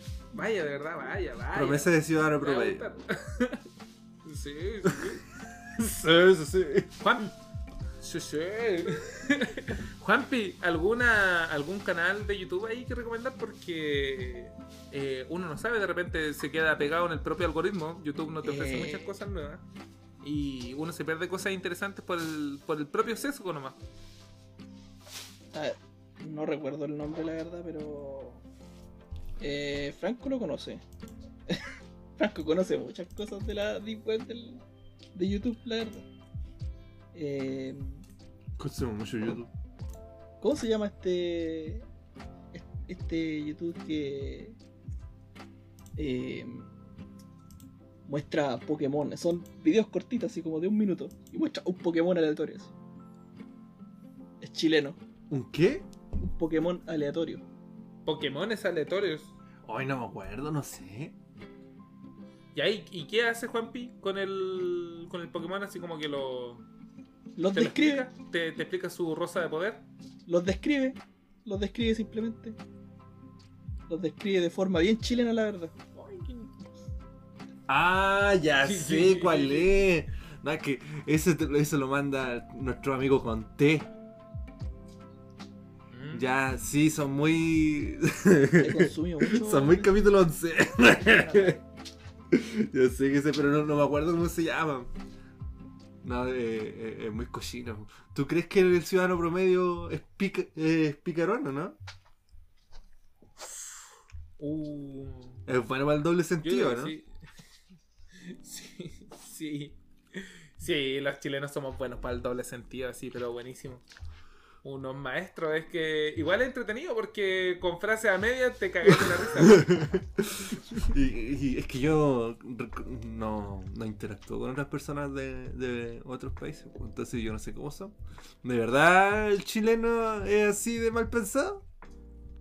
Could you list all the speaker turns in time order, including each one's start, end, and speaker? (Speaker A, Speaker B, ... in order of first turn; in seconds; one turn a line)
Speaker A: 0.3-3.6
Speaker B: 1.5-2.8
Speaker A: 4.2-5.2
Speaker B: 5.8-7.0
Speaker A: 7.0-7.3
Speaker A: 8.0-19.6
Speaker C: 18.4-19.1
Speaker A: 20.2-23.8
Speaker C: 25.5-28.4
Speaker C: 29.4-30.8
Speaker C: 31.5-34.6
Speaker C: 35.1-36.0
Speaker C: 37.1-38.0
Speaker B: 38.6-39.5
Speaker C: 40.4-41.9
Speaker C: 42.5-44.6
Speaker C: 46.0-46.7
Speaker C: 48.1-52.7
Speaker C: 54.4-55.0
Speaker B: 55.3-55.9
Speaker C: 56.2-57.4
Speaker A: 58.1-59.3
Speaker B: 59.6-61.2
Speaker A: 62.5-66.7
Speaker C: 67.4-68.1
Speaker A: 67.5-69.8
Speaker C: 70.3-72.6
Speaker C: 73.9-76.5
Speaker B: 77.7-83.9
Speaker A: 78.6-79.7
Speaker A: 85.9-86.3
Speaker B: 86.1-91.6
Speaker C: 88.6-89.9
Speaker C: 90.9-91.6
Speaker B: 92.3-94.9
Speaker B: 96.0-101.8
Speaker A: 104.4-105.4
Speaker B: 105.5-107.0
Speaker A: 106.4-107.1
Speaker A: 108.2-113.8
Speaker A: 114.6-119.8
Speaker B: 119.4-131.6